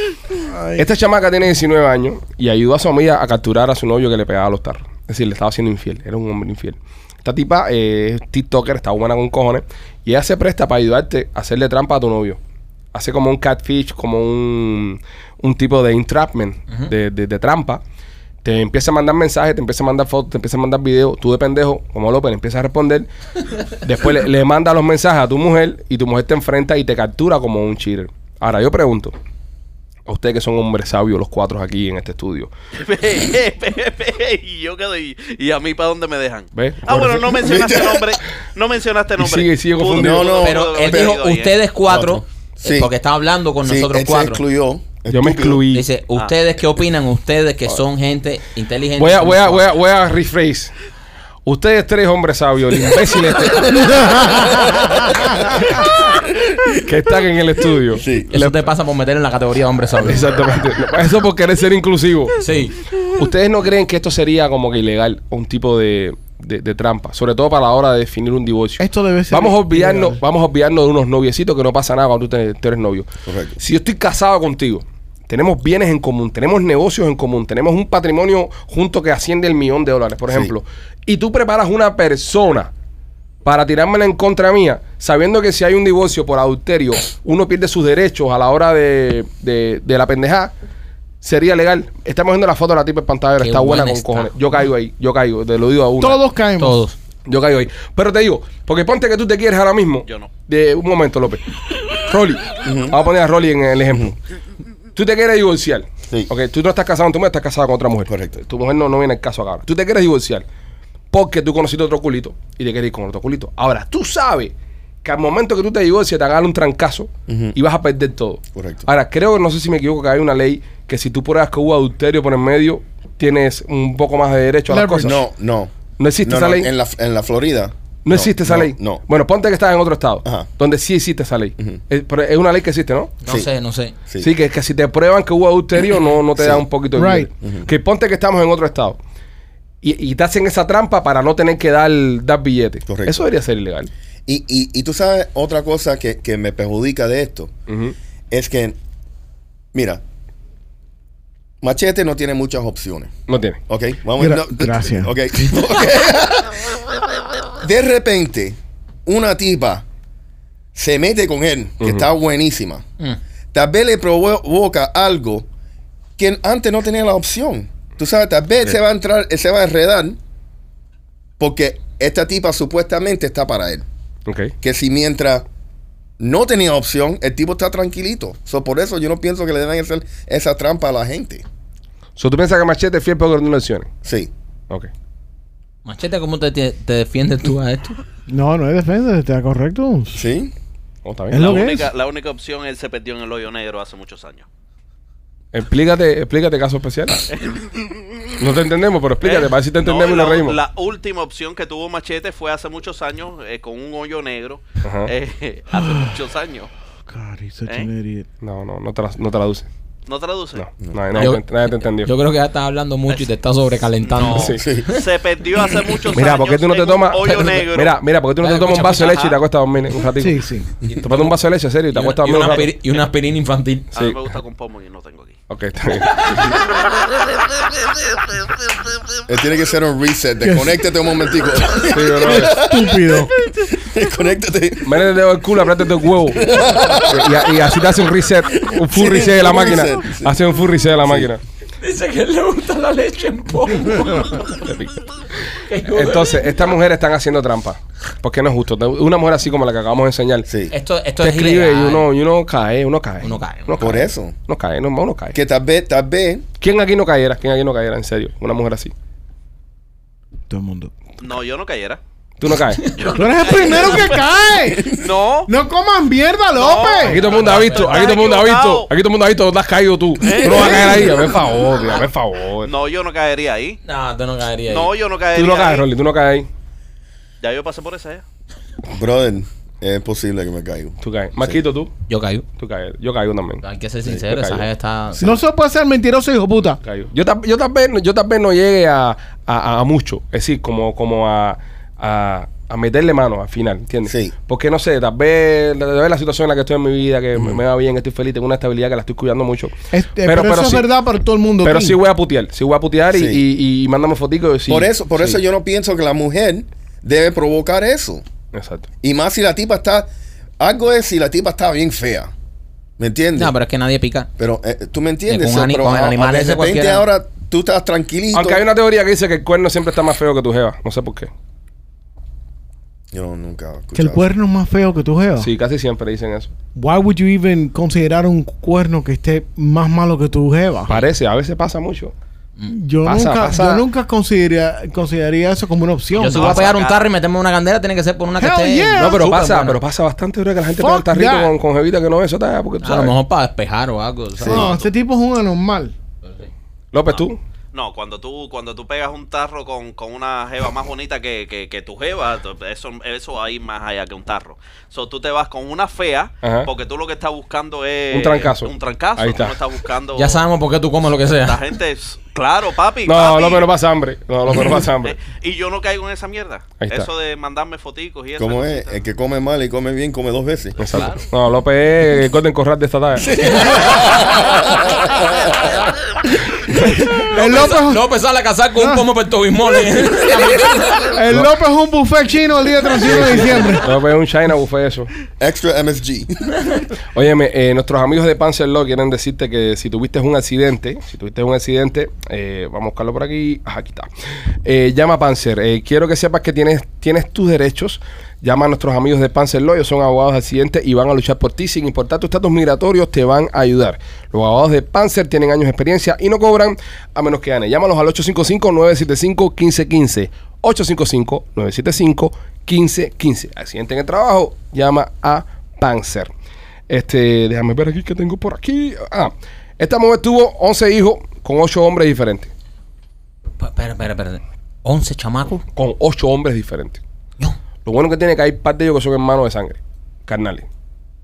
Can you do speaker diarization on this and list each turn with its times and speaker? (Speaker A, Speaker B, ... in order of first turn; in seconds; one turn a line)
Speaker A: 0.4-0.9
Speaker B: 0.8-12.4
Speaker B: 12.9-17.8
Speaker B: 18.4-23.1
Speaker B: 23.7-29.1
Speaker B: 30.1-32.5
Speaker C: 32.8-41.6
Speaker B: 36.5-37.4
Speaker D: 37.3-38.1
Speaker B: 39.2-40.4
Speaker D: 39.9-41.1
Speaker E: 40.4-44.4
Speaker D: 41.9-42.9
Speaker D: 43.6-45.6
Speaker B: 45.1-45.9
Speaker E: 45.7-49.7
Speaker B: 49.0-50.7
Speaker B: 51.4-54.5
Speaker B: 55.3-55.9
Speaker B: 56.7-58.6
Speaker D: 57.9-58.3
Speaker E: 58.3-60.3
Speaker B: 60.0-73.1
Speaker E: 62.4-62.8
Speaker A: 68.8-70.2
Speaker D: 73.2-73.6
Speaker B: 73.6-82.7
Speaker D: 80.3-80.5
Speaker B: 83.4-90.5
Speaker B: 91.2-96.2
Speaker E: 93.4-94.3
Speaker A: 96.0-96.8
Speaker E: 96.6-97.0
Speaker B: 97.3-104.2
Speaker C: 100.0-100.3
Speaker D: 102.6-103.0
Speaker B: 104.9-110.4
Speaker D: 108.1-108.4
Speaker B: 111.1-114.5
Speaker B: 115.0-125.2
Speaker D: 117.3-117.5
Speaker D: 118.5-118.9
Speaker A: 124.7-125.2
Speaker D: 125.0-125.7
Speaker B: 126.0-126.7
Speaker D: 126.2-129.0
Speaker B: 128.0-133.1
Speaker D: 130.2-130.5
Speaker E: 133.2-133.9
Speaker B: 134.2-139.0
Speaker D: 136.4-136.7
Speaker A: 136.9-137.3
Speaker D: 137.4-137.7
Speaker B: 139.8-143.9
Speaker D: 142.9-143.2
Speaker D: 144.2-147.5
Speaker B: 147.7-147.9
Speaker D: 148.3-148.8
Speaker D: 149.7-150.0
Speaker D: 151.6-153.1
Speaker B: 153.3-153.6
Speaker D: 153.7-156.8
Speaker A: 154.2-155.1
Speaker D: 157.6-159.8
Speaker D: 160.7-162.8
Speaker B: 161.8-162.1
Speaker D: 163.5-165.5
Speaker D: 166.2-170.2
Speaker D: 171.4-173.8
Speaker B: 174.3-174.5
Speaker D: 174.6-175.4
Speaker D: 176.2-181.4
Speaker B: 182.2-183.9
Speaker D: 184.0-184.3
Speaker E: 185.8-188.0
Speaker A: 188.3-190.2
Speaker D: 190.1-190.5
Speaker B: 191.0-191.7
Speaker A: 191.3-191.9
Speaker C: 191.4-194.5
Speaker B: 195.5-197.2
Speaker C: 197.3-198.3
Speaker B: 198.4-200.6
Speaker C: 199.2-206.7
Speaker B: 204.8-205.1
Speaker A: 205.8-206.1
Speaker A: 207.1-208.2
Speaker B: 208.4-209.7
Speaker C: 210.1-210.7
Speaker B: 210.6-212.1
Speaker E: 211.1-215.0
Speaker C: 214.0-218.0
Speaker B: 214.3-214.6
Speaker D: 214.6-214.9
Speaker B: 216.1-220.4
Speaker E: 218.4-219.3
Speaker C: 218.9-219.3
Speaker A: 220.2-220.7
Speaker E: 220.9-221.3
Speaker B: 221.0-222.7
Speaker E: 221.9-223.9
Speaker C: 223.9-225.4
Speaker B: 225.5-226.4
Speaker D: 229.3-235.0
Speaker A: 230.4-230.7
Speaker B: 231.8-232.6
Speaker A: 231.8-233.3
Speaker B: 234.8-241.4
Speaker D: 236.3-237.5
Speaker D: 238.6-240.4
Speaker D: 241.0-241.3
Speaker E: 241.8-244.5
Speaker B: 244.6-244.9
Speaker E: 245.7-246.5
Speaker B: 245.9-250.5
Speaker D: 250.4-250.7
Speaker E: 250.7-252.1
Speaker B: 251.2-255.4
Speaker E: 253.2-253.8
Speaker D: 253.8-254.3
Speaker D: 255.3-256.4
Speaker B: 256.6-258.9
Speaker A: 260.5-260.9
Speaker C: 261.2-262.0
Speaker B: 262.4-262.9
Speaker E: 262.8-263.2
Speaker C: 262.9-264.2
Speaker A: 263.1-267.2
Speaker C: 264.9-265.5
Speaker C: 266.5-268.9
Speaker B: 267.0-272.7
Speaker E: 267.1-268.1
Speaker C: 270.2-271.2
Speaker C: 272.6-273.8
Speaker E: 273.8-274.9
Speaker C: 274.7-275.8
Speaker B: 275.3-276.5
Speaker C: 277.4-278.2
Speaker D: 278.9-281.6
Speaker B: 281.0-281.9
Speaker E: 282.1-282.4
Speaker B: 282.6-283.6
Speaker E: 283.6-285.4
Speaker B: 284.3-284.6
Speaker A: 285.2-286.8
Speaker B: 286.8-300.9
Speaker D: 294.1-294.3
Speaker A: 299.9-302.0
Speaker B: 301.6-304.9
Speaker D: 303.1-303.4
Speaker D: 304.7-308.2
Speaker B: 308.5-308.9
Speaker D: 309.0-310.1
Speaker D: 310.6-312.3
Speaker D: 313.0-313.5
Speaker E: 313.4-314.3
Speaker D: 314.4-318.6
Speaker E: 315.3-317.1
Speaker B: 318.3-321.3
Speaker D: 323.1-324.3
Speaker A: 323.9-325.5
Speaker B: 325.4-326.5
Speaker A: 326.8-330.9
Speaker B: 330.9-332.1
Speaker A: 332.7-336.6
Speaker B: 333.0-333.8
Speaker E: 336.1-339.8
Speaker C: 336.2-337.0
Speaker A: 338.4-339.2
Speaker B: 339.0-343.1
Speaker A: 340.8-341.5
Speaker E: 342.8-344.9
Speaker D: 344.4-344.7
Speaker A: 344.5-345.9
Speaker B: 346.9-347.4
Speaker C: 347.1-360.4
Speaker B: 356.4-356.7
Speaker B: 358.1-359.6
Speaker E: 360.2-361.6
Speaker C: 361.3-363.7
Speaker B: 363.0-365.1
Speaker C: 365.0-368.9
Speaker B: 366.8-367.1
Speaker D: 368.4-370.8
Speaker B: 370.8-373.3
Speaker C: 370.9-371.2
Speaker D: 373.2-375.7
Speaker A: 377.1-378.0
Speaker E: 377.3-381.1
Speaker A: 381.1-383.8
Speaker B: 383.0-385.1
Speaker D: 385.4-386.8
Speaker B: 387.1-394.1
Speaker B: 394.6-416.3
Speaker B: 416.9-422.5
Speaker E: 423.6-425.6
Speaker B: 425.7-427.0
Speaker B: 427.8-430.7